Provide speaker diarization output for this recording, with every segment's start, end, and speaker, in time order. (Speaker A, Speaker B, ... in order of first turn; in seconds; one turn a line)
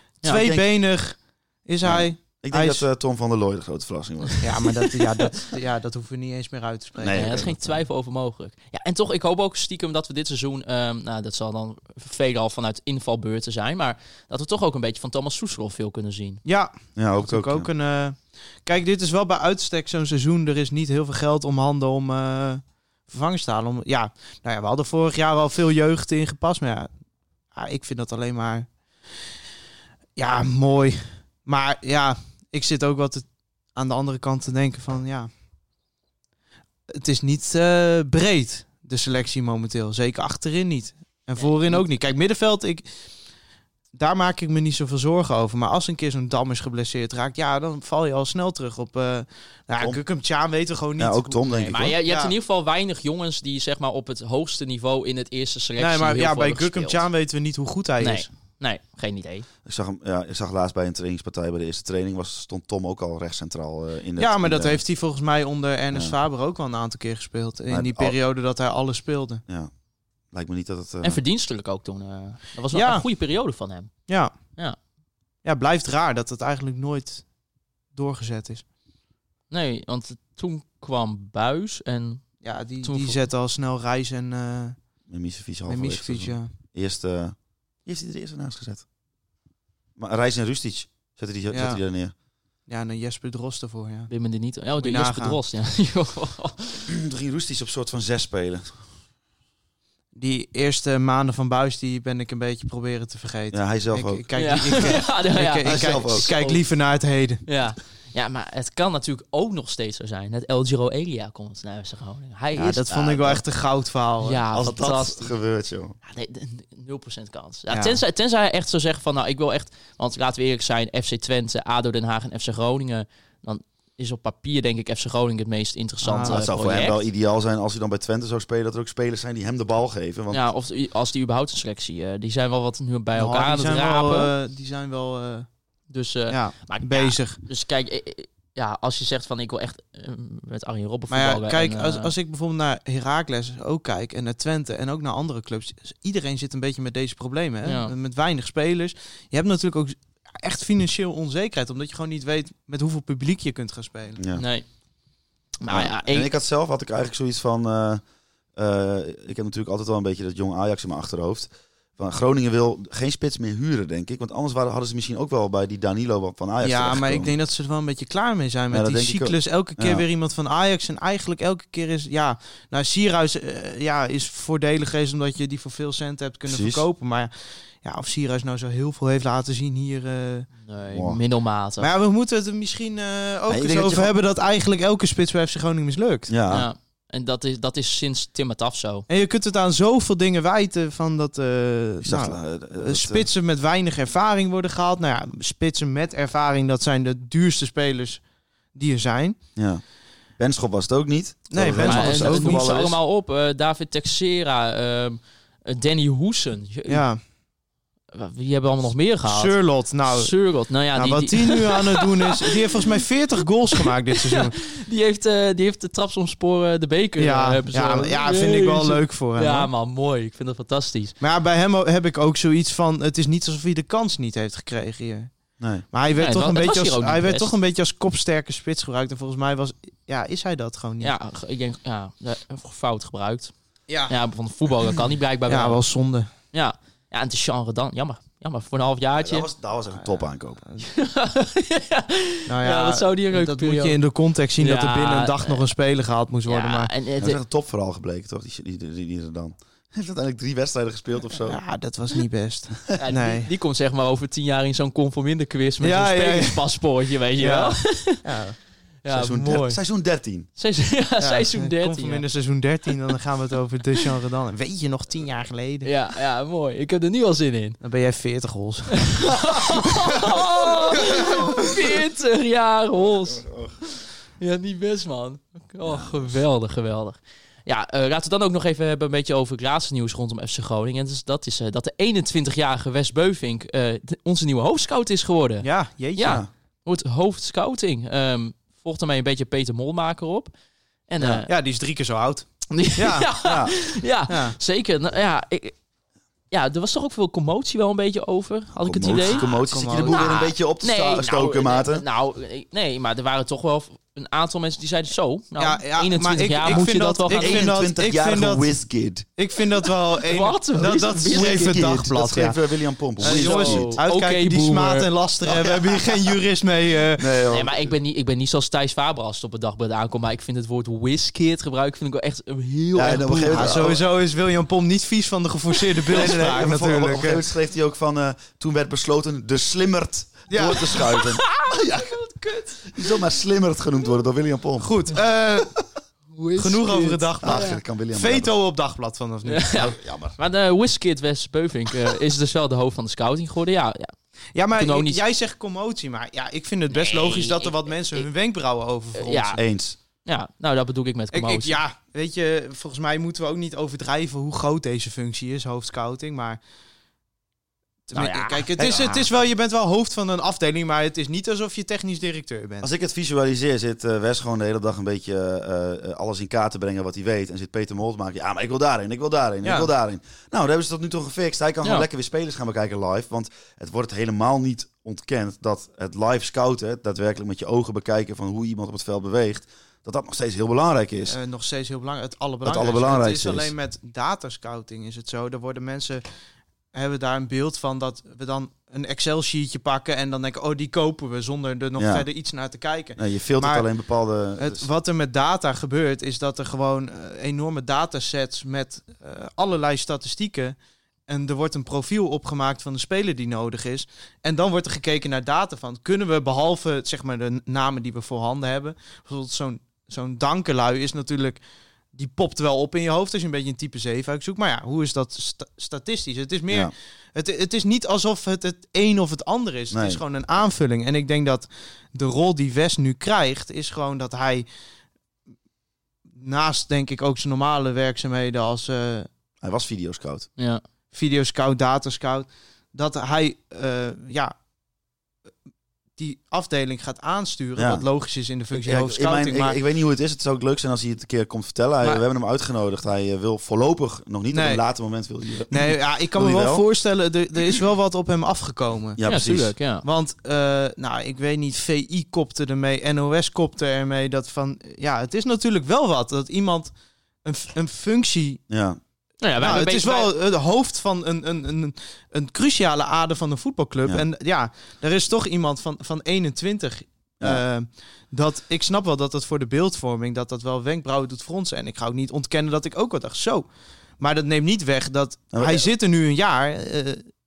Speaker A: 0.2-2.8
Speaker B: 0.3-0.6
Speaker B: 1.8-4.7
Speaker A: 4.4-7.5
Speaker B: 7.0-7.8
Speaker C: 7.1-16.4
Speaker A: 16.4-26.9
Speaker B: 16.9-17.7
Speaker A: 27.5-28.7
Speaker A: 30.2-35.3
Speaker A: 36.9-42.9
Speaker C: 41.4-41.8
Speaker A: 43.9-52.3
Speaker B: 51.0-52.0
Speaker C: 51.7-57.0
Speaker A: 55.8-58.3
Speaker C: 58.0-59.5
Speaker B: 59.6-64.8
Speaker A: 64.2-69.4
Speaker B: 67.7-68.2
Speaker B: 70.3-71.2
Speaker C: 71.0-73.9
Speaker A: 72.7-73.0
Speaker A: 74.1-74.3
Speaker A: 75.4-77.2
Speaker A: 77.9-78.6
Speaker C: 79.5-83.2
Speaker A: 82.4-84.8
Speaker B: 85.1-88.8
Speaker A: 85.7-86.5
Speaker B: 90.0-92.1
Speaker A: 91.5-91.8
Speaker A: 92.7-94.1
Speaker C: 94.1-96.9
Speaker A: 94.8-95.4
Speaker B: 96.9-98.7
Speaker A: 100.1-107.4
Speaker B: 103.5-105.0
Speaker C: 104.3-106.6
Speaker B: 105.6-106.3
Speaker C: 107.5-112.9
Speaker A: 112.5-114.4
Speaker B: 112.9-113.4
Speaker C: 114.2-115.3
Speaker B: 114.5-116.0
Speaker C: 116.0-127.0
Speaker A: 117.7-118.0
Speaker A: 126.0-126.4
Speaker B: 126.3-130.4
Speaker C: 130.3-134.3
Speaker A: 133.1-135.5
Speaker C: 135.9-142.1
Speaker A: 136.3-137.4
Speaker A: 141.1-154.2
Speaker C: 147.6-147.9
Speaker B: 154.2-154.4
Speaker C: 154.3-154.6
Speaker C: 155.6-156.3
Speaker B: 155.7-158.0
Speaker B: 158.6-167.3
Speaker A: 166.6-180.5
Speaker B: 168.7-170.0
Speaker B: 176.5-176.8
Speaker C: 180.6-181.9
Speaker B: 180.9-181.2
Speaker A: 181.8-186.3
Speaker B: 183.5-184.1
Speaker B: 186.3-186.7
Speaker C: 186.5-189.1
Speaker A: 189.1-198.2
Speaker B: 192.0-193.3
Speaker A: 198.7-199.4
Speaker B: 199.6-199.8
Speaker B: 200.4-203.0
Speaker A: 201.5-202.9
Speaker C: 201.8-207.0
Speaker A: 206.9-207.2
Speaker C: 208.1-213.0
Speaker A: 209.3-210.4
Speaker A: 210.9-214.6
Speaker C: 213.8-221.2
Speaker A: 217.2-219.7
Speaker A: 221.2-225.3
Speaker B: 225.6-225.8
Speaker A: 225.9-231.1
Speaker C: 226.1-227.6
Speaker C: 231.0-233.5
Speaker A: 233.9-234.1
Speaker C: 234.1-235.8
Speaker A: 235.5-236.3
Speaker C: 236.5-239.5
Speaker B: 239.2-240.6
Speaker C: 240.8-244.0
Speaker A: 242.5-246.9
Speaker C: 244.6-245.7
Speaker C: 246.5-247.4
Speaker B: 247.2-251.6
Speaker A: 251.4-253.5
Speaker C: 252.9-258.2
Speaker A: 255.8-256.7
Speaker A: 257.4-258.6
Speaker C: 259.0-259.8
Speaker B: 259.1-260.5
Speaker C: 260.6-262.2
Speaker A: 261.2-265.9
Speaker C: 265.8-267.8
Speaker A: 267.8-269.3
Speaker C: 269.0-273.4
Speaker B: 273.0-273.8
Speaker C: 274.0-290.5
Speaker B: 275.8-276.3
Speaker A: 285.6-286.4
Speaker B: 286.2-286.5
Speaker C: 291.1-291.5
Speaker A: 291.4-293.4
Speaker C: 292.7-295.8
Speaker B: 293.4-293.7
Speaker A: 294.3-294.6
Speaker C: 296.5-299.5
Speaker B: 298.8-302.0
Speaker A: 299.2-300.3
Speaker C: 300.0-307.7
Speaker A: 305.6-308.7
Speaker B: 307.3-309.2
Speaker A: 309.4-312.6
Speaker C: 310.3-312.0
Speaker B: 311.3-314.0
Speaker A: 313.2-317.4
Speaker C: 313.2-315.7
Speaker B: 317.2-317.9
Speaker C: 317.5-323.9
Speaker B: 322.9-324.0
Speaker A: 323.5-327.4
Speaker B: 326.1-332.2
Speaker A: 330.5-331.2
Speaker C: 331.0-332.6
Speaker B: 332.8-335.0
Speaker A: 334.8-335.8
Speaker C: 336.3-337.8
Speaker A: 336.6-339.9
Speaker B: 337.4-338.5
Speaker C: 339.4-344.1
Speaker B: 339.8-340.4
Speaker A: 344.5-349.6
Speaker C: 344.7-345.2
Speaker C: 346.9-348.3
Speaker C: 349.1-349.6
Speaker B: 349.6-349.9
Speaker C: 350.2-351.8
Speaker A: 351.3-356.6
Speaker A: 358.1-362.9
Speaker C: 358.1-359.2
Speaker B: 362.8-381.4
Speaker A: 369.6-369.9
Speaker A: 381.3-386.2
Speaker B: 382.6-383.7
Speaker A: 386.9-393.9
Speaker B: 392.0-392.2
Speaker B: 393.2-394.9
Speaker A: 394.6-400.8
Speaker A: 401.3-411.6
Speaker A: 412.1-424.6
Speaker B: 419.9-420.2
Speaker A: 426.4-429.3
Speaker B: 429.6-430.5
Speaker A: 431.1-434.5
Speaker A: 436.2-439.8
Speaker B: 437.8-438.0
Speaker B: 438.7-446.8
Speaker A: 444.5-444.8
Speaker A: 445.7-449.2
Speaker B: 449.1-449.7
Speaker C: 449.2-450.0
Speaker A: 450.0-456.9
Speaker A: 457.4-458.6
Speaker B: 458.7-459.0
Speaker C: 459.4-460.3
Speaker A: 459.6-473.6
Speaker A: 474.2-477.2
Speaker B: 475.5-475.9